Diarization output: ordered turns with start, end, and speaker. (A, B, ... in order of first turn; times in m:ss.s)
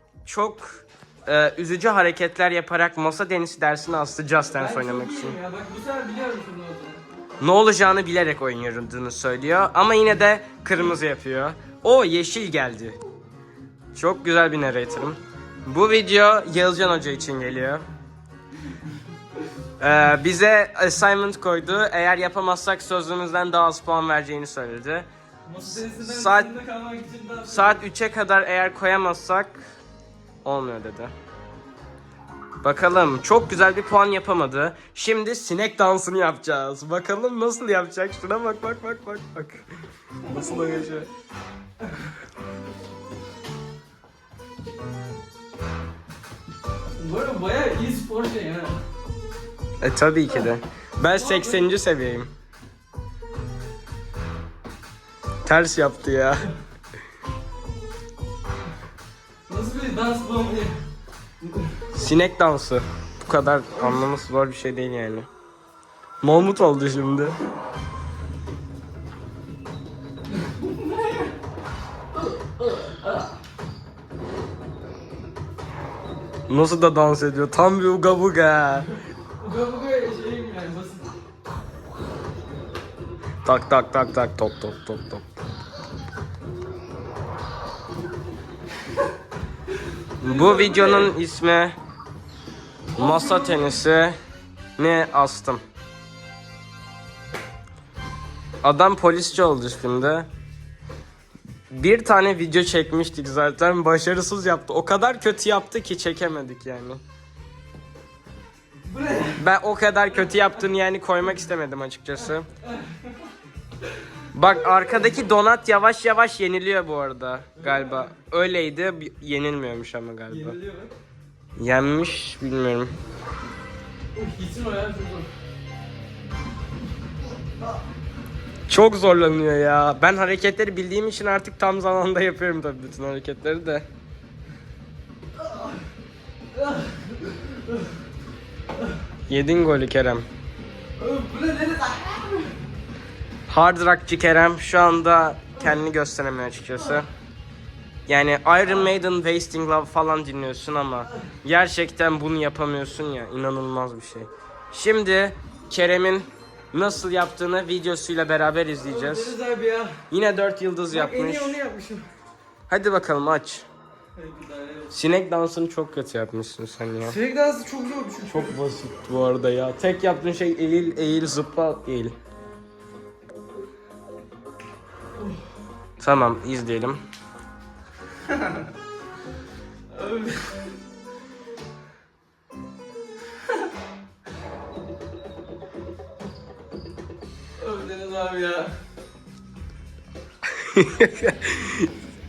0:00.2-0:05.4 A
0:04.5-0:07.0 B
0:07.4-0:13.0 A
0:13.9-0:17.8 A
0:19.8-0:26.5 A
0:25.5-0:27.8 B
0:27.5-0:29.6 A
0:30.4-0:31.1 A
0:32.6-0:39.6 A
0:40.2-0:41.1 A
0:40.3-0:41.0 B
0:47.0-0:48.8 B
0:49.8-0:52.3 A
0:51.1-0:51.7 B
0:55.4-0:56.5 A
0:59.5-1:00.8 B
1:01.4-1:01.7 B
1:01.9-1:05.3 A
1:06.2-1:07.4 A
1:10.3-1:11.3 B
1:12.2-1:13.3 B
1:16.5-1:18.9 A
1:19.4-1:21.1 B
1:23.4-1:25.2 A
1:30.2-1:31.1 B
1:30.2-1:31.8 A
1:32.9-1:33.8 B
1:32.9-1:34.2 A
1:34.8-1:35.6 A
1:38.6-1:40.3 A
1:41.7-1:47.0 A
1:48.9-1:49.4 B
1:49.4-1:52.5 A
1:52.6-1:53.1 B
1:54.3-2:00.6 A
1:57.6-1:58.0 B
2:00.3-2:00.9 B
2:01.6-2:02.9 A
2:04.1-2:05.3 B
2:08.7-2:13.8 A
2:15.4-2:15.7 B
2:16.5-2:17.9 B
2:19.3-2:20.3 A
2:21.0-2:22.5 B
2:23.5-2:27.1 A
2:28.1-2:39.3 A
2:38.8-2:40.0 B
2:40.1-2:41.6 A
2:40.9-2:42.0 B
2:42.7-2:43.6 A
2:44.2-2:44.9 B
2:44.9-2:47.2 A
2:47.0-2:48.5 B
2:48.3-2:52.1 A
2:56.0-2:57.0 A
2:58.2-2:58.6 B
2:59.9-3:00.7 B
3:07.6-3:08.7 B
3:10.6-3:11.9 A